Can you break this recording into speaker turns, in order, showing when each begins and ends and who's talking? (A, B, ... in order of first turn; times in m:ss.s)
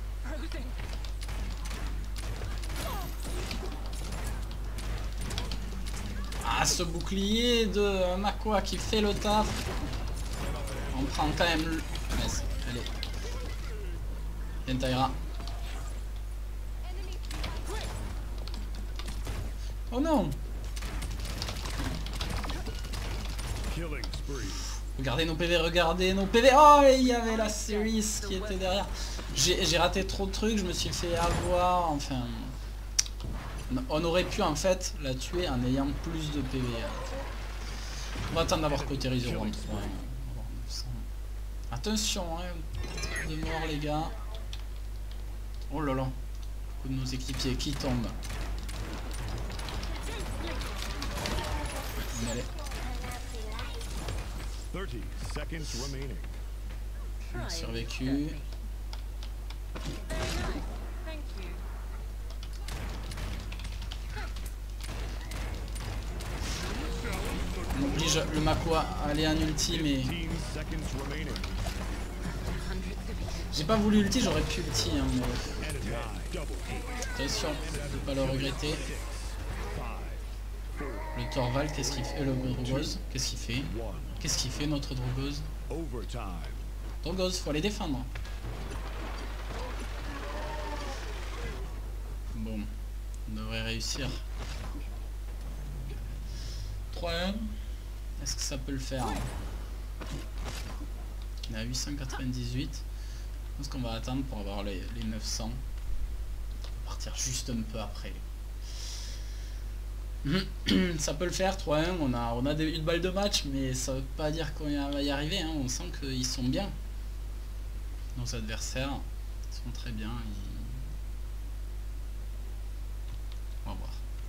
0:00.2-0:00.7 A
0:06.4-0:09.6 B
0:10.9-0:12.9 B
0:14.6-0:15.2 B
0:19.9-0:20.4 B
0:23.6-0:24.6 C
0:24.8-0:32.5 B
0:27.1-0:28.9 A
0:33.7-0:37.1 B
0:38.3-0:41.0 B
0:39.0-0:39.8 C
0:41.7-0:44.2 B
0:45.7-0:46.2 B
0:46.8-0:48.2 B
0:52.1-0:52.5 B
0:54.7-0:56.4 C
0:57.2-0:58.4 A
0:57.3-0:58.4 B
1:00.1-1:01.6 A
1:07.7-1:10.2 B
1:09.9-1:11.5 C
1:12.5-1:13.4 A
1:13.4-1:15.9 B
1:15.6-1:21.1 C
1:17.1-1:18.9 B
1:21.1-1:25.5 B
1:21.7-1:22.9 C
1:23.6-1:24.1 C
1:25.7-1:26.7 C
1:27.0-1:28.1 B
1:32.3-1:32.7 B
1:33.2-1:34.2 B
1:35.6-1:36.1 B
1:36.9-1:37.6 B
1:38.2-1:39.3 B
1:41.5-1:42.8 B
1:43.6-1:45.6 B
1:46.8-1:48.2 B
1:50.2-1:56.7 B
1:58.1-2:00.9 B
2:03.6-2:04.0 B